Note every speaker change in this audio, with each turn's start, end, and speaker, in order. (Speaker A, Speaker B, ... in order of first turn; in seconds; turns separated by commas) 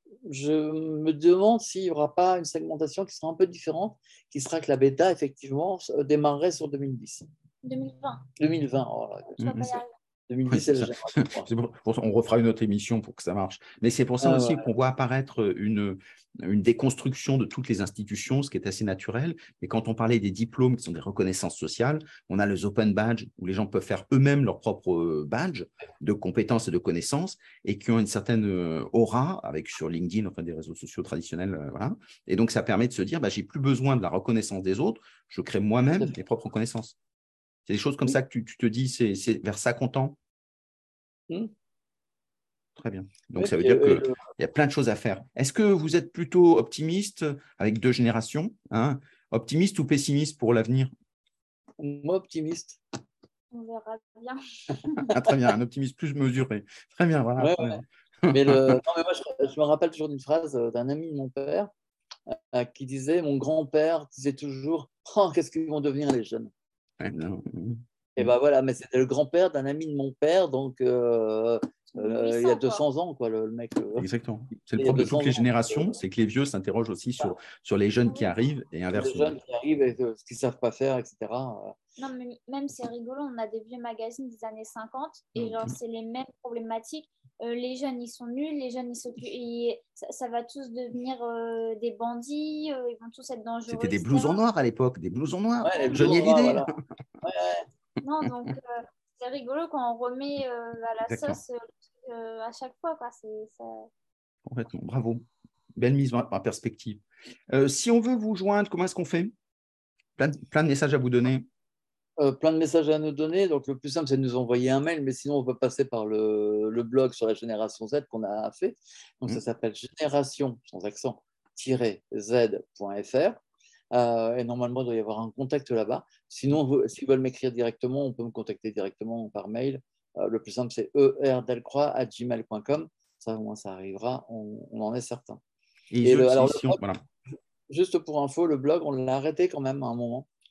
Speaker A: 0.2-7.3, Speaker B: 7.6-8.3, Speaker A: 8.4-9.4, Speaker C: 9.4-9.8, Speaker B: 9.4-9.9, Speaker A: 10.3-11.5, Speaker C: 10.5-37.0, Speaker A: 14.2-14.7, Speaker C: 37.7-40.2, Speaker C: 42.8-50.9, Speaker A: 43.4-44.2, Speaker A: 51.8-52.8, Speaker B: 53.5-55.0, Speaker C: 55.0-58.8, Speaker A: 57.4-61.7, Speaker A: 62.3-66.5, Speaker C: 67.0-68.3, Speaker A: 68.2-74.1, Speaker B: 71.9-72.8, Speaker C: 74.0-79.3, Speaker A: 74.8-76.0, Speaker B: 78.0-78.3, Speaker A: 78.9-81.7, Speaker B: 82.0-94.4, Speaker C: 85.4-85.7, Speaker C: 93.7-96.7, Speaker A: 95.6-96.7, Speaker B: 95.6-96.3, Speaker A: 97.2-97.7, Speaker B: 98.0-103.9, Speaker C: 101.1-101.4, Speaker C: 104.5-105.2, Speaker C: 105.7-109.3, Speaker C: 110.2-111.5, Speaker A: 112.2-123.4, Speaker A: 123.9-135.4, Speaker C: 135.9-137.0, Speaker A: 136.0-136.8, Speaker A: 137.7-140.3